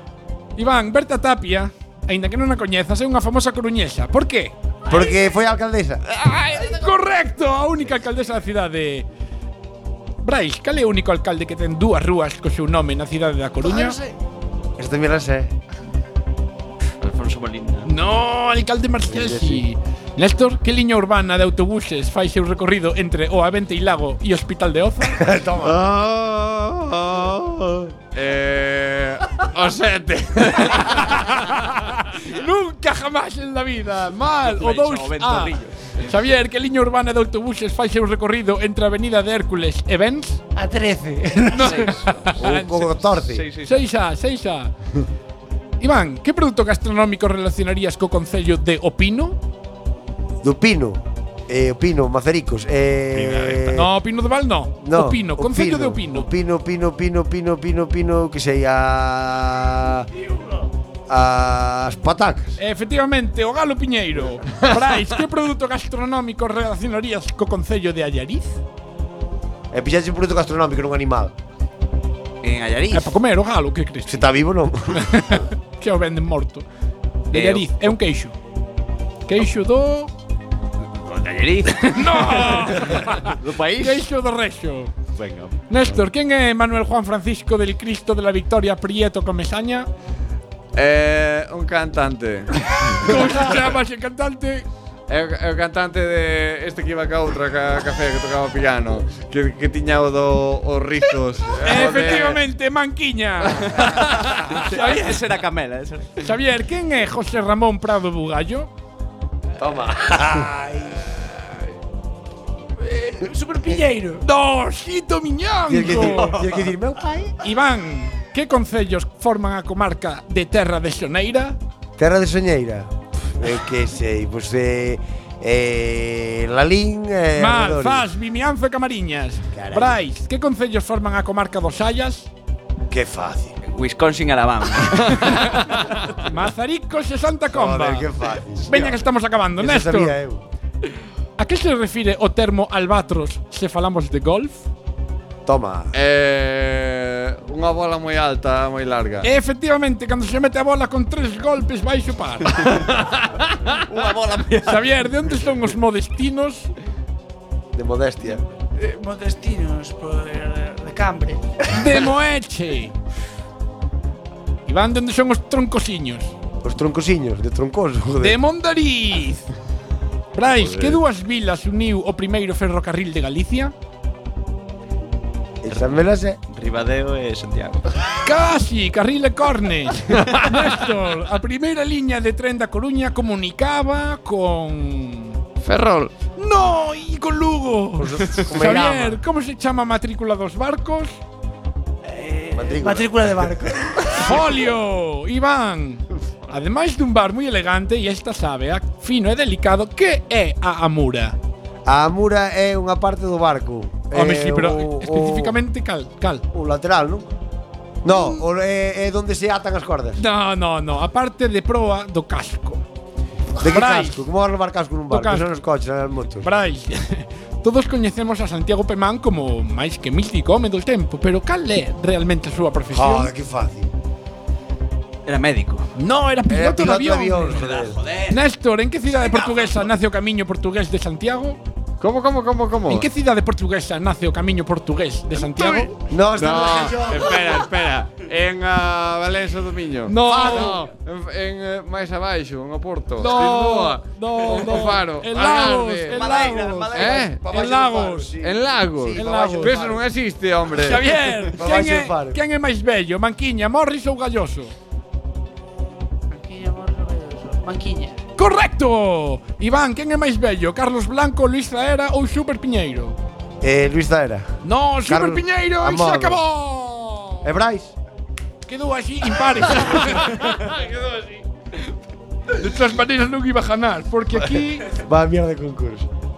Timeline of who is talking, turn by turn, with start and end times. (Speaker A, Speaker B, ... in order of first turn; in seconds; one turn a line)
Speaker A: 0.6-4.5
Speaker B: 4.9-6.0
Speaker A: 6.1-9.1
Speaker A: 10.2-14.0
Speaker C: 13.6-14.1
Speaker B: 14.8-15.5
Speaker D: 17.0-17.9
Speaker A: 17.8-25.2
Speaker B: 19.1-19.6
Speaker B: 25.2-25.8
Speaker E: 25.6-31.7
Speaker A: 32.0-40.4
Speaker D: 34.4-36.1
Speaker C: 40.5-41.8
Speaker A: 41.5-44.7
Speaker D: 41.6-42.2
Speaker B: 42.4-43.5
Speaker D: 43.3-43.8
Speaker A: 45.8-49.4
Speaker B: 50.4-53.8
Speaker E: 53.1-53.8
Speaker A: 53.7-56.3
Speaker B: 54.8-60.1
Speaker B: 61.1-62.5
Speaker A: 62.6-68.6
Speaker B: 69.7-71.3
Speaker D: 72.4-73.1
Speaker A: 72.9-74.3
Speaker B: 74.1-75.2
Speaker A: 75.0-76.7
Speaker A: 77.3-78.3
Speaker D: 77.3-78.0
Speaker A: 79.3-80.1
Speaker D: 81.0-84.1
Speaker A: 81.9-84.9
Speaker D: 85.2-86.0
Speaker A: 85.7-89.9
Speaker E: 90.8-93.7
Speaker A: 92.9-94.7
Speaker E: 95.1-102.3
Speaker A: 101.6-105.2
Speaker B: 101.7-102.3
Speaker D: 103.8-106.3
Speaker A: 106.2-108.7
Speaker B: 109.6-111.0
Speaker C: 113.0-114.2
Speaker A: 114.2-116.4
Speaker B: 115.7-117.4
Speaker A: 117.4-121.6
Speaker B: 122.0-128.1
Speaker A: 127.4-132.3
Speaker B: 129.6-129.9
Speaker B: 132.9-133.5
Speaker D: 133.6-135.6
Speaker A: 135.3-135.6
Speaker E: 135.7-136.2
Speaker A: 136.2-138.1
Speaker B: 137.5-138.8
Speaker A: 138.7-140.2
Speaker B: 139.6-140.4
Speaker A: 141.4-144.6
Speaker B: 145.4-145.9
Speaker E: 145.9-149.3
Speaker A: 149.2-152.6
Speaker D: 153.8-155.1
Speaker A: 154.6-156.7
Speaker B: 157.7-158.4
Speaker C: 158.8-161.4
Speaker A: 161.7-162.9
Speaker A: 164.7-166.3
Speaker B: 166.6-168.4
Speaker A: 168.2-169.5
Speaker A: 170.3-173.7
Speaker D: 170.6-171.0
Speaker B: 175.6-176.4
Speaker D: 175.7-176.0
Speaker D: 176.5-178.0
Speaker A: 178.2-185.4
Speaker E: 180.2-180.5
Speaker E: 185.7-186.1
Speaker A: 186.3-191.2
Speaker B: 188.0-189.2
Speaker C: 192.0-194.3
Speaker B: 192.5-194.1
Speaker A: 194.1-201.4
Speaker B: 201.8-205.6
Speaker A: 204.1-206.4
Speaker B: 206.5-207.3
Speaker B: 208.0-210.2
Speaker A: 210.2-212.8
Speaker B: 213.6-216.5
Speaker A: 213.6-214.2
Speaker A: 215.1-215.4
Speaker A: 216.4-223.3
Speaker B: 222.9-223.9
Speaker D: 225.2-225.9
Speaker A: 225.9-227.6
Speaker B: 226.5-228.0
Speaker D: 227.5-228.4
Speaker A: 228.3-231.6
Speaker D: 229.1-229.8
Speaker E: 232.0-233.1
Speaker A: 232.8-235.9
Speaker D: 235.5-235.9
Speaker B: 236.1-237.6
Speaker E: 236.3-246.2
Speaker A: 240.1-240.8
Speaker B: 240.3-240.8
Speaker A: 243.2-248.3
Speaker D: 246.1-247.3
Speaker E: 246.9-247.5
Speaker B: 247.1-250.0
Speaker E: 248.4-251.5
Speaker A: 249.2-249.8
Speaker A: 250.7-254.7
Speaker B: 251.6-252.4
Speaker C: 256.3-258.2
Speaker A: 258.4-263.2
Speaker B: 263.6-266.4
Speaker A: 264.6-267.5
Speaker B: 267.4-267.9
Speaker A: 268.7-270.9
Speaker E: 270.8-271.2
Speaker A: 272.5-274.9
Speaker B: 274.9-276.1